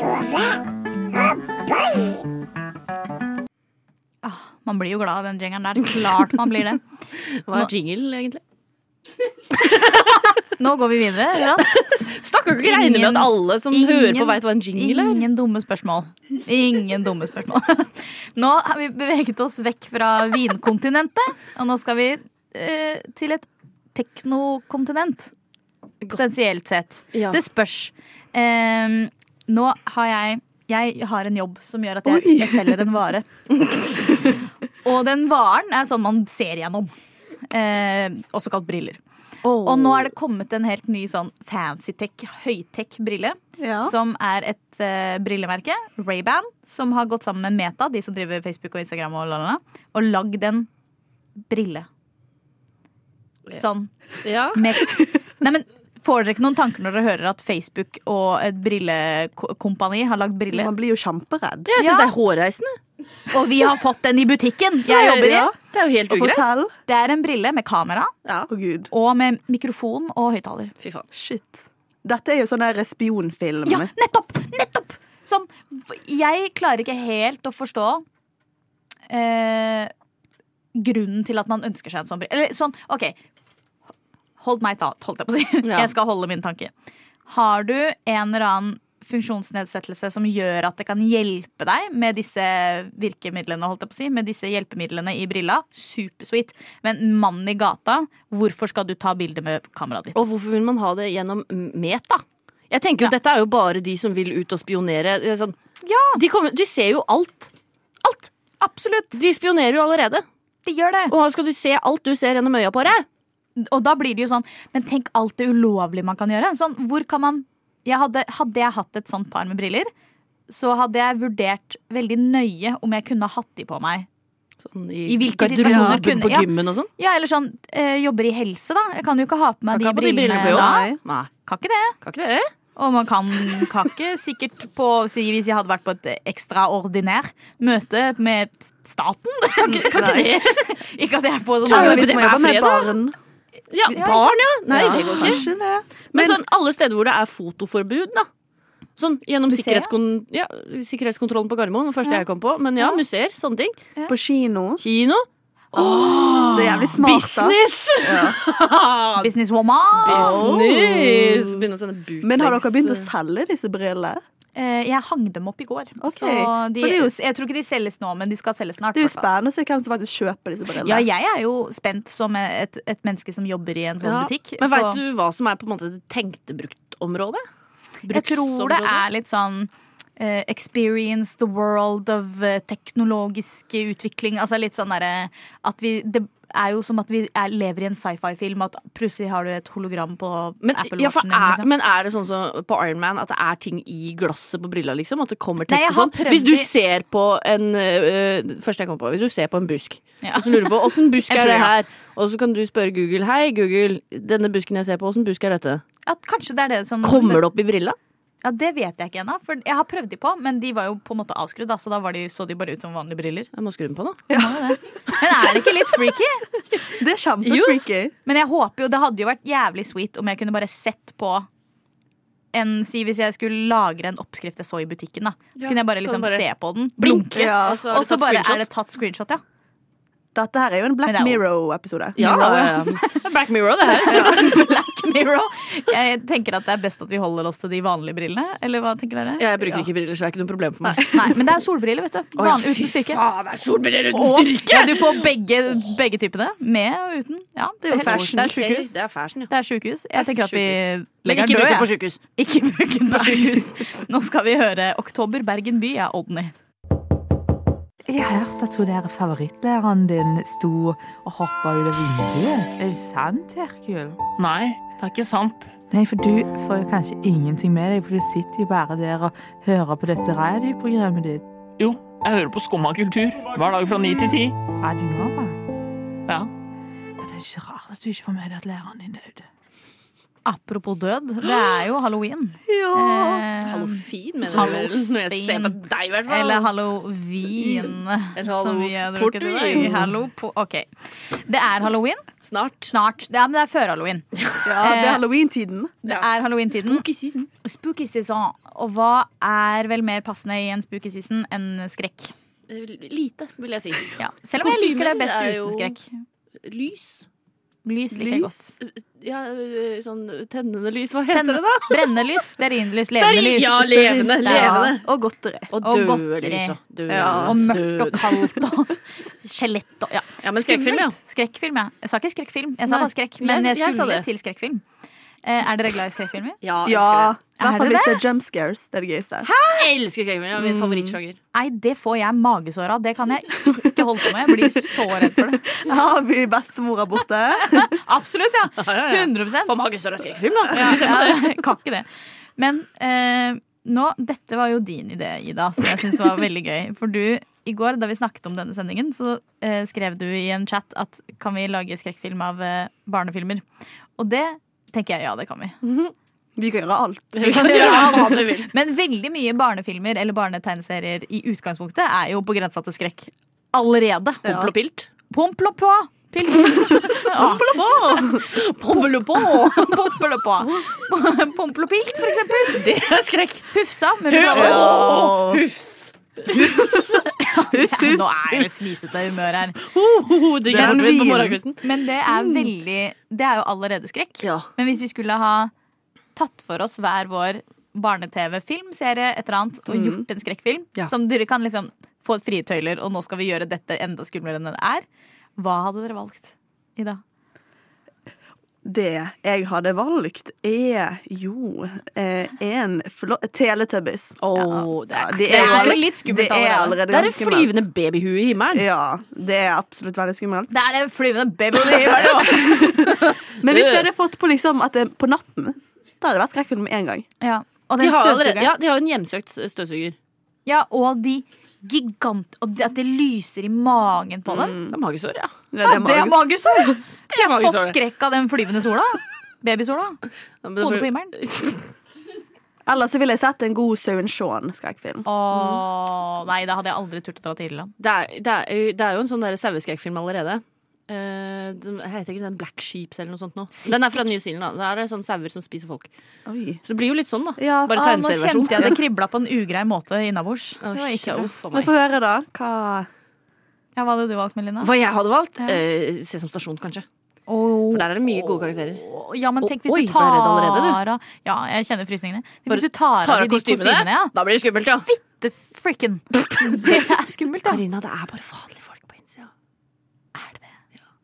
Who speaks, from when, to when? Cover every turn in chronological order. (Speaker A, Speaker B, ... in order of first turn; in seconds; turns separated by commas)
Speaker A: 4.2-6.8, Speaker B: 7.5-8.4, Speaker B: 9.6-10.2, Speaker A: 10.6-25.3, Speaker B: 11.6-15.2, Speaker A: 26.1-33.2, Speaker B: 27.1-27.4, Speaker C: 32.1-32.6, Speaker B: 33.6-33.9, Speaker A: 34.8-36.9, Speaker A: 37.5-39.0, Speaker B: 39.5-40.1, Speaker A: 39.6-50.7, Speaker C: 43.6-43.9, Speaker A: 51.4-51.9, Speaker A: 53.5-53.9, Speaker B: 54.2-54.7, Speaker A: 54.5-60.7, Speaker C: 60.5-61.7, Speaker B: 61.7-62.8, Speaker A: 61.8-62.1, Speaker A: 63.3-65.5, Speaker B: 64.9-66.5, Speaker C: 65.1-65.5, Speaker C: 66.1-66.7, Speaker A: 66.9-68.1, Speaker C: 68.5-68.9, Speaker A: 68.9-70.7, Speaker B: 70.8-71.1, Speaker C: 71.1-73.9, Speaker A: 73.7-78.0, Speaker A: 79.1-79.9, Speaker A: 80.8-83.2, Speaker A: 84.4-86.7, Speaker B: 85.7-85.9, Speaker A: 87.3-100.2, Speaker B: 100.2-105.6, Speaker A: 105.8-106.2, Speaker B: 106.1-107.5, Speaker A: 108.1-109.2, Speaker B: 109.1-110.2, Speaker A: 110.7-111.1, Speaker B: 111.1-113.0, Speaker A: 113.6-119.9, Speaker A: 120.5-124.1, Speaker B: 124.7-126.9, Speaker A: 125.1-130.9, Speaker C: 125.6-126.1, Speaker B: 129.7-131.3, Speaker C: 130.4-131.0, Speaker A: 131.5-131.9, Speaker B: 132.0-132.5, Speaker A: 132.8-142.2, Speaker B: 139.7-140.6, Speaker C: 139.7-140.4, Speaker B: 141.7-143.0, Speaker C: 141.7-143.2, Speaker B: 143.7-145.4, Speaker A: 143.9-145.4, Speaker C: 144.7-146.4, Speaker B: 146.1-148.3, Speaker B: 149.0-153.8, Speaker A: 149.5-149.9, Speaker C: 154.1-154.8, Speaker B: 154.8-159.3, Speaker A: 155.7-156.9, Speaker C: 156.5-158.4, Speaker A: 159.2-160.4, Speaker B: 160.0-163.1, Speaker C: 160.0-161.6, Speaker C: 162.2-164.2, Speaker A: 164.6-169.3, Speaker C: 166.0-167.2, Speaker C: 168.9-171.1, Speaker A: 170.8-175.0, Speaker B: 174.0-177.4, Speaker B: 178.0-179.0, Speaker A: 178.1-191.7, Speaker B: 190.6-205.8, Speaker A: 195.7-196.7, Speaker A: 200.2-201.7, Speaker A: 206.1-207.4, Speaker B: 207.0-208.0, Speaker A: 208.4-213.5, Speaker B: 213.5-214.2, Speaker C: 214.3-214.7, Speaker A: 214.3-216.4, Speaker C: 216.9-218.1, Speaker B: 217.4-217.8, Speaker A: 218.3-221.5, Speaker A: 222.5-229.4, Speaker B: 225.6-226.4, Speaker B: 227.0-228.7, Speaker C: 227.3-227.8, Speaker C: 230.3-232.8, Speaker A: 231.1-231.4, Speaker B: 232.2-234.6, Speaker A: 233.9-239.8, Speaker C: 234.1-234.6, Speaker B: 239.4-241.2, Speaker C: 240.8-241.1, Speaker A: 241.1-243.2, Speaker B: 242.4-245.3, Speaker A: 244.1-248.9, Speaker C: 247.8-248.6, Speaker B: 248.0-249.5, Speaker A: 249.5-256.5, Speaker B: 250.2-252.2, Speaker B: 253.2-253.7, Speaker D: 258.1-264.2, Speaker E: 264.4-265.7, Speaker D: 265.0-265.3, Speaker D: 265.9-271.4, Speaker E: 271.8-274.6, Speaker D: 274.7-275.6, Speaker D: 277.2-279.4, Speaker A: 280.5-292.3, Speaker C: 282.7-283.4, Speaker B: 283.6-286.7, Speaker B: 288.4-290.1, Speaker C: 289.8-290.1, Speaker B: 292.4-292.9, Speaker A: 292.9-294.2, Speaker C: 294.6-295.9, Speaker A: 294.8-295.2, Speaker A: 296.0-297.0, Speaker B: 296.1-297.5, Speaker A: 297.6-302.3, Speaker B: 302.7-306.0, Speaker A: 304.2-306.1, Speaker B: 306.6-307.3, Speaker A: 307.9-308.7, Speaker C: 308.1-308.5, Speaker B: 308.8-312.1, Speaker A: 311.3-314.8, Speaker B: 313.1-315.1, Speaker C: 313.8-315.7, Speaker B: 315.7-318.5, Speaker A: 315.8-316.8, Speaker C: 317.1-317.6, Speaker A: 317.3-324.8, Speaker B: 320.4-321.2, Speaker B: 322.9-324.3, Speaker A: 325.4-326.6, Speaker B: 326.6-327.3, Speaker C: 326.9-329.5, Speaker A: 327.6-328.2, Speaker A: 329.4-329.8, Speaker B: 329.7-331.4, Speaker C: 330.6-331.2, Speaker A: 331.5-335.6, Speaker C: 334.0-337.9, Speaker A: 337.6-339.7, Speaker B: 338.8-341.6, Speaker A: 340.7-342.1, Speaker A: 342.6-353.6, Speaker A: 354.2-355.8, Speaker B: 355.8-356.1, Speaker C: 356.6-357.6, Speaker B: 357.4-358.7, Speaker A: 357.4-364.4, Speaker B: 364.4-365.1, Speaker A: 365.3-368.3, Speaker C: 366.8-368.5, Speaker B: 368.5-370.0, Speaker A: 369.6-372.9, Speaker B: 372.7-373.7, Speaker A: 373.7-375.0, Speaker B: 374.3-377.1, Speaker C: 374.5-375.6, Speaker A: 376.5-379.8, Speaker C: 377.8-378.1, Speaker B: 379.8-381.8, Speaker C: 380.7-381.6, Speaker A: 380.8-381.1, Speaker A: 381.8-385.7, Speaker B: 384.4-384.7, Speaker A: 386.4-395.1, Speaker C: 389.9-390.2, Speaker A: 395.6-397.2, Speaker C: 398.8-404.4, Speaker B: 404.4-406.0, Speaker A: 404.6-404.9, Speaker C: 405.1-407.9, Speaker A: 405.5-407.3, Speaker B: 407.1-408.9, Speaker C: 408.7-410.7, Speaker A: 410.7-413.1, Speaker C: 412.2-417.3, Speaker B: 413.1-414.1, Speaker A: 417.4-418.7, Speaker B: 418.0-420.2, Speaker A: 420.7-424.8, Speaker C: 424.5-425.0, Speaker B: 424.9-425.5, Speaker C: 425.7-426.9, Speaker A: 425.8-430.2, Speaker B: 427.3-428.0, Speaker B: 430.6-431.9, Speaker A: 430.8-431.3, Speaker C: 432.9-435.3, Speaker A: 435.2-437.9, Speaker B: 438.0-446.1, Speaker A: 443.7-444.3, Speaker C: 446.5-446.8, Speaker B: 446.8-449.0, Speaker C: 447.6-447.9, Speaker A: 447.9-451.5, Speaker B: 450.8-451.9, Speaker C: 451.7-453.1, Speaker A: 454.0-454.9, Speaker B: 454.8-457.1, Speaker A: 457.5-464.3, Speaker B: 457.9-459.1, Speaker B: 459.6-461.0, Speaker B: 462.7-465.1, Speaker A: 465.1-467.8, Speaker B: 466.3-467.0, Speaker B: 467.6-469.5, Speaker A: 470.4-470.7